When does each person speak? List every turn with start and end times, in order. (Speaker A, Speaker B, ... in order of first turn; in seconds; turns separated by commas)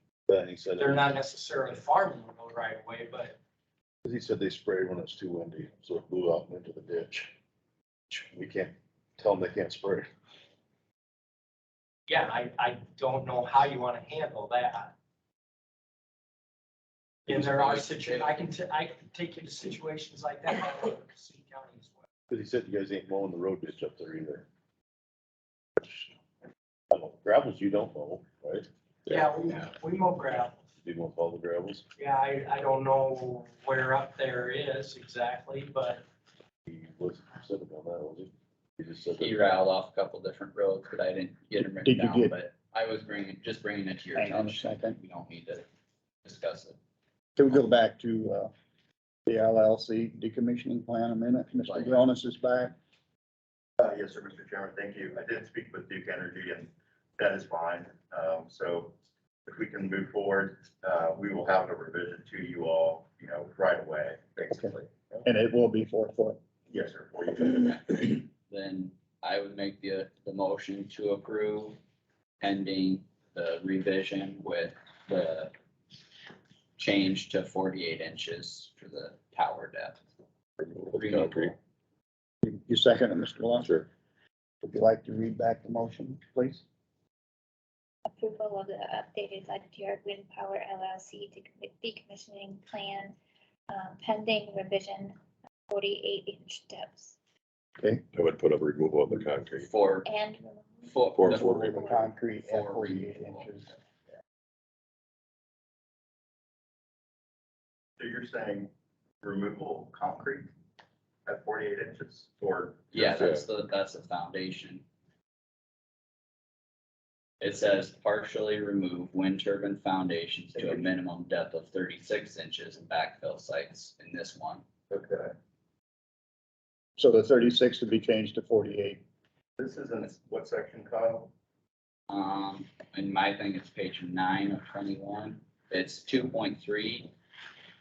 Speaker A: 0.3-1.1, Speaker B: 0.8-3.4, Speaker A: 4.0-7.3, Speaker A: 8.1-10.1, Speaker B: 12.1-14.9, Speaker B: 17.3-22.0, Speaker C: 17.3-18.4, Speaker A: 22.3-24.5, Speaker A: 26.9-28.7, Speaker B: 29.1-30.6, Speaker A: 30.8-31.8, Speaker B: 32.0-36.0, Speaker A: 36.7-39.5, Speaker C: 39.1-45.7, Speaker D: 41.8-42.3, Speaker D: 44.1-45.0, Speaker C: 46.2-46.8, Speaker D: 47.4-48.5, Speaker D: 49.3-52.7, Speaker C: 51.6-52.0, Speaker E: 53.8-58.9, Speaker E: 59.5-65.2, Speaker D: 65.2-66.4, Speaker E: 66.7-67.7, Speaker C: 67.5-71.8, Speaker C: 72.4-75.5, Speaker C: 76.8-80.0, Speaker F: 80.6-81.5, Speaker C: 80.9-81.6, Speaker D: 82.4-83.8, Speaker D: 84.6-86.6, Speaker G: 88.0-93.1, Speaker G: 93.7-95.2, Speaker G: 95.7-97.2, Speaker F: 98.1-99.7, Speaker C: 99.6-100.1, Speaker G: 100.0-101.0, Speaker C: 100.8-103.6, Speaker F: 101.1-101.7, Speaker D: 101.3-103.7, Speaker G: 101.6-102.0, Speaker E: 108.0-108.7, Speaker E: 109.2-110.5, Speaker E: 111.2-112.9, Speaker C: 112.9-114.8, Speaker F: 112.9-113.5, Speaker C: 117.4-124.6, Speaker E: 124.9-125.3, Speaker D: 127.0-129.0, Speaker E: 129.6-131.3, Speaker C: 132.1-137.1